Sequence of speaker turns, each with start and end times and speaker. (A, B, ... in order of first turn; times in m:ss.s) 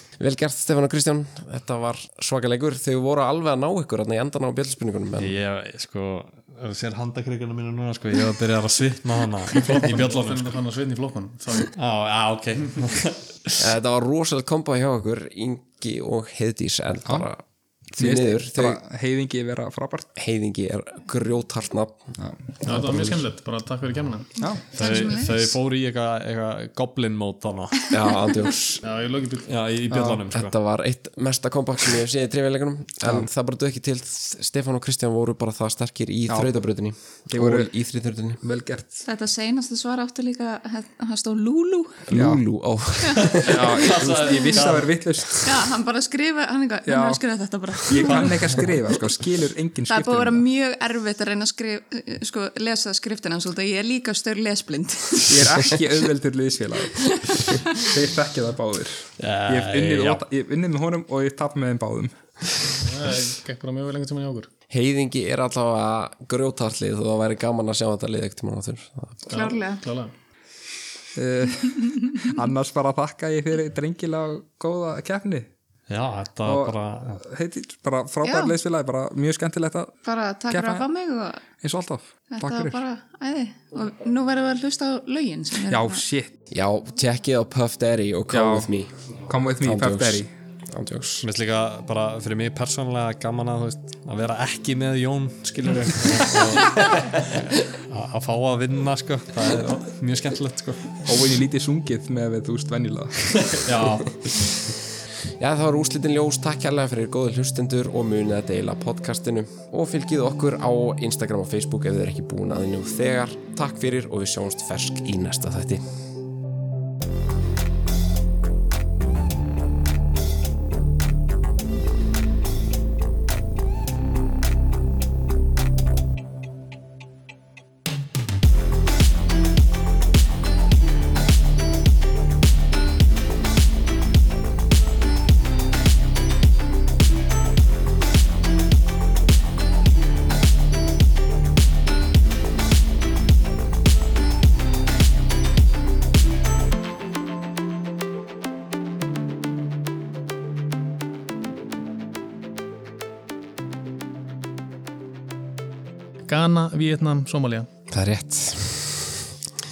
0:00.2-0:05.4 A
0:05.2-0:10.5 B
0:09.5-0:11.7 C
0:11.6-0:13.6 B
0:13.6-0:18.8 A
0:18.0-0:20.1 D
0:20.2-0:22.1 A
0:22.2-0:23.1 D
0:22.6-0:24.3 C
0:24.4-0:24.7 D
0:24.7-0:25.5 E
0:24.8-0:27.9 B
0:27.9-0:28.8 A
0:28.8-0:29.5 C
0:29.5-0:30.5 B
0:29.9-0:30.2 D
0:30.3-0:38.4 A
0:36.3-0:36.6 D
0:37.3-0:37.7 D
0:38.4-0:39.0 D
0:39.0-0:42.1 E
0:42.1-0:43.6 A
0:42.1-0:42.4 D
0:43.0-0:43.7 E
0:43.2-0:44.9 B
0:43.4-0:45.7 D
0:44.2-0:44.6 E
0:45.4-0:48.8 E
0:46.9-0:47.2 D
0:47.9-0:50.4 D
0:49.9-0:55.8 E
0:55.3-1:02.2 D
0:57.0-0:57.9 E
0:59.2-1:00.2 B
1:02.7-1:04.5 C
1:04.7-1:09.3 A
1:09.3-1:10.2 C
1:09.3-1:09.8 E
1:11.2-1:15.5 D
1:15.9-1:17.2 B
1:16.4-1:20.0 D
1:18.2-1:18.6 E
1:20.0-1:21.4 E
1:20.5-1:20.9 D
1:21.6-1:22.8 D
1:22.3-1:26.0 E
1:25.7-1:26.3 D
1:26.5-1:28.9 A
1:28.3-1:28.7 D
1:29.3-1:30.3 D
1:29.6-1:31.3 A
1:31.2-1:41.1 B
1:41.0-1:43.7 D
1:43.5-1:44.2 B
1:45.4-1:55.8 A
2:36.3-2:37.7 C
2:37.9-2:39.2 A